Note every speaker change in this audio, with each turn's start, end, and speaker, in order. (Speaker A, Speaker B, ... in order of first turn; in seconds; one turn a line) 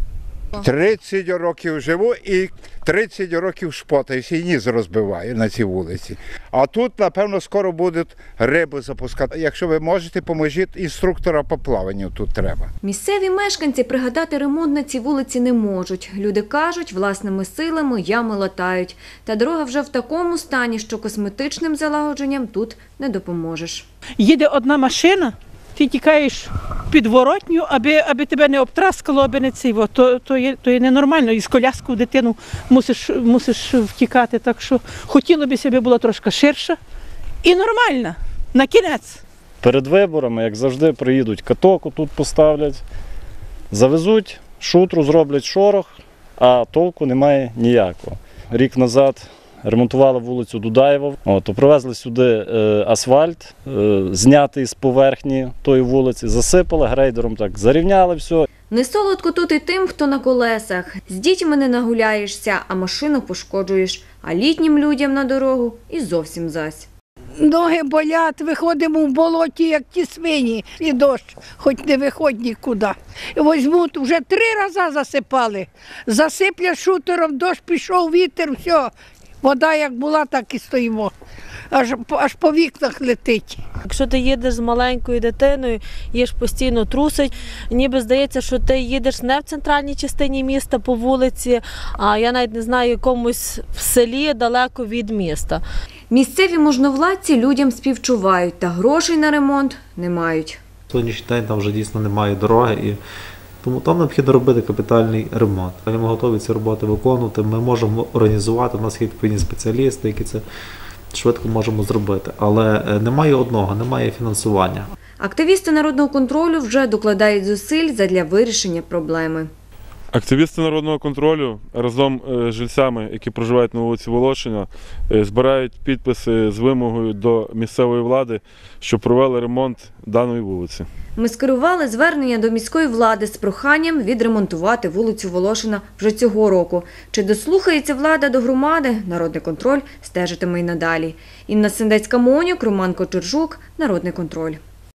Speaker A: 0.6-12.7
Speaker B: 12.8-23.9
Speaker C: 24.2-36.8
Speaker C: 37.4-39.2
Speaker D: 39.6-42.8
Speaker D: 43.7-58.5
Speaker B: 58.7-66.9
Speaker E: 67.4-81.1
Speaker E: 81.7-83.6
Speaker F: 83.9-95.6
Speaker B: 96.1-100.6
Speaker G: 100.9-103.0
Speaker G: 103.6-110.4
Speaker G: 111.1-114.9
Speaker B: 115.2-119.5
Speaker H: 120.1-130.9
Speaker B: 131.2-144.6